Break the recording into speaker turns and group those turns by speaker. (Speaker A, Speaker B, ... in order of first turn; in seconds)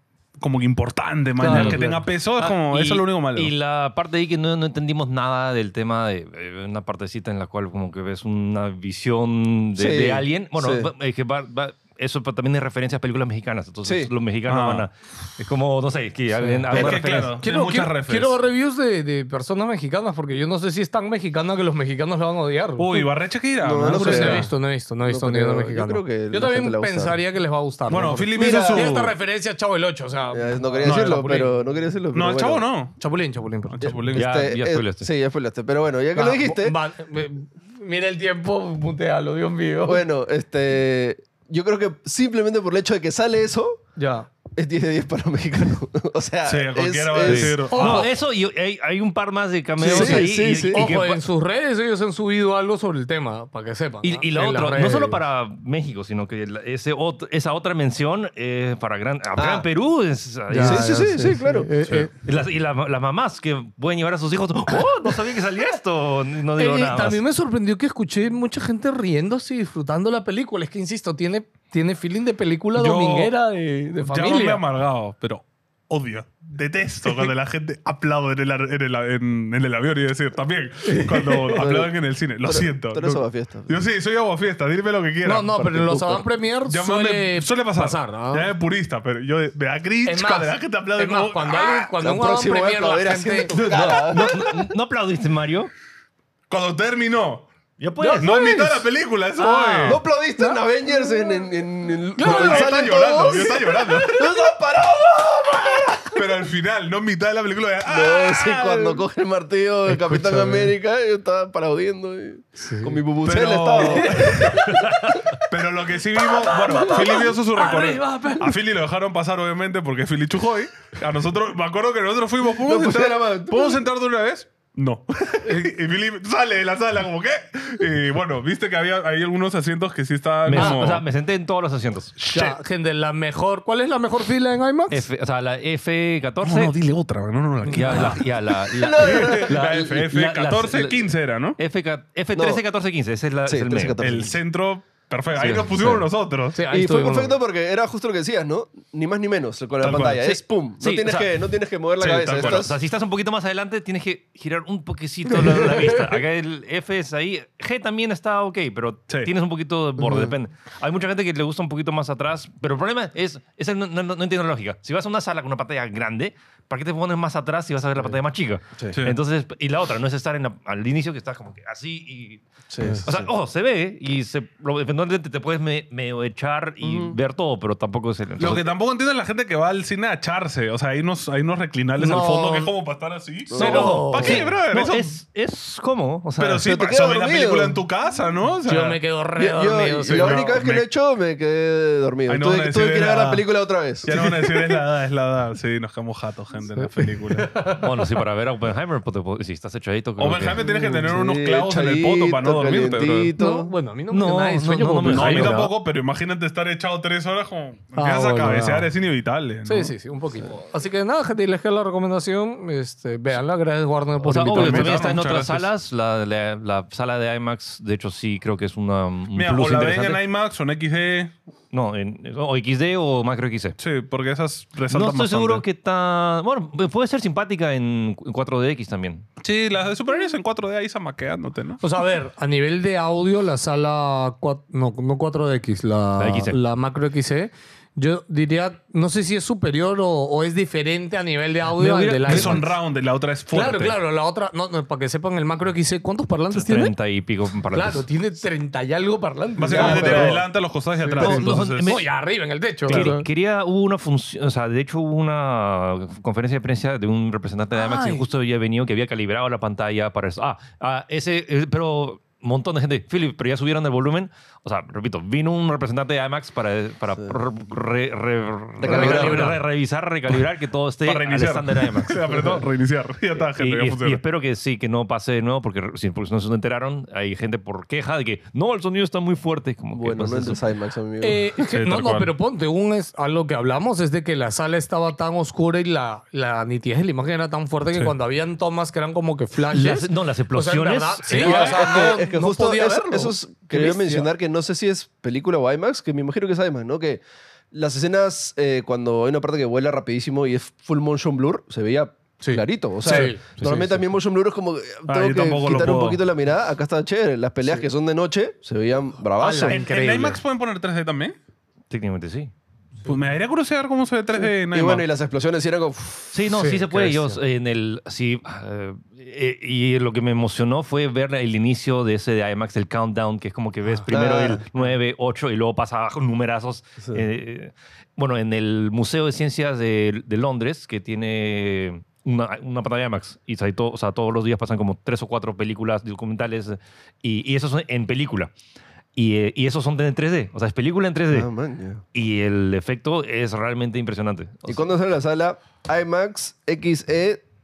Speaker A: 0.4-3.5, 14.5-14.9, 16.7-18.4, 22.8-24.5, 27.9-29.2, 30.9-31.2, 32.1-32.9, 33.7-34.3, 46.5-48.1, 72.8-73.3, 74.0-85.7, 86.7-91.9, 96.5-97.5, 98.2-100.0, 102.2-104.3, 106.1-108.8, 113.2-114.6, 115.5-131.1, 132.2-132.6, 136.4-138.2, 139.0-141.6, 144.0-146.6, 149.8-150.2, 152.0-152.7, 178.4-185.1, 186.4-189.0, 190.1-190.9, 192.3-193.4, 194.1-197.5, 200.2-203.3, 205.1-209.9, 214.5-215.7, 219.3-221.3, 223.8-225.6, 229.4-231.8, 242.2-244.0, 249.6-251.9, 252.9-253.2, 271.0-274.2, 281.6-282.3, 291.3-292.1, 303.1-303.3, 305.1-306.2, 309.7-311.4, 313.1-315.1
Speaker B: 1.4-2.1, 16.4-16.7, 17.4-23.1, 23.9-31.5, 33.0-33.9, 36.1-40.0, 44.0-44.3, 47.7-48.1, 49.9-55.2, 60.5-62.1, 66.6-74.6, 80.8-81.6, 85.2-88.5, 90.0-93.6, 98.0-98.8, 99.4-99.7, 102.2-104.0, 109.9-110.7, 112.6-113.0, 113.8-115.2, 116.2-118.5, 125.5-125.7, 130.6-131.0, 132.3-135.1, 137.7-138.2, 146.5-147.3, 155.4-155.9, 182.0-182.7, 183.6-184.4, 188.7-190.6, 194.1-194.4, 196.8-198.1, 200.7-201.1, 203.4-205.7, 208.0-208.9, 209.7-215.1, 231.8-242.7, 243.5-246.9, 247.7-250.4, 251.0-253.3, 257.7-258.3, 268.8-269.6, 281.2-294.3, 302.4-304.0, 309.4-310.4, 316.6-317.4
Speaker C: 1.5-1.8, 2.4-17.4, 34.1-35.1, 47.2-51.2, 54.0-61.1, 62.2-67.2, 93.5-95.7, 97.8-98.7, 99.4-100.0, 130.4-132.2, 134.9-136.8, 137.7-144.2, 145.3-146.1, 150.2-151.3, 152.1-172.4, 173.0-178.7, 183.6-186.6, 197.7-200.7, 204.1-205.7, 214.2-220.2, 221.7-223.8, 224.9-229.3, 236.2-236.6, 241.8-242.7, 246.5-248.1, 251.2-252.1, 252.9-272.4, 273.4-280.6, 289.7-291.6, 311.9-312.5, 316.3-338.5, 339.2-341.5, 342.1-344.9
Speaker D: 9.8-10.9, 13.8-14.1, 16.7-17.0, 23.6-24.5, 25.1-27.2, 28.4-29.0, 30.3-32.7, 33.8-36.8, 39.9-43.8, 44.5-47.7, 49.8-50.9, 59.4-59.7, 60.6-62.1, 81.5-83.8, 85.5-86.3, 92.0-94.6, 99.8-106.2, 107.9-114.8, 122.5-123.8, 138.7-139.7, 142.3-142.6, 143.5-144.3, 146.7-152.8, 160.0-160.3, 172.7-173.3, 176.8-177.2, 183.5-184.0, 186.6-187.8, 189.4-194.1, 200.6-203.7, 249.7-250.4, 268.8-269.5, 279.9-281.4, 291.4-309.8, 314.4-316.4, 324.1-324.9, 341.3-342.0, 344.7-347.4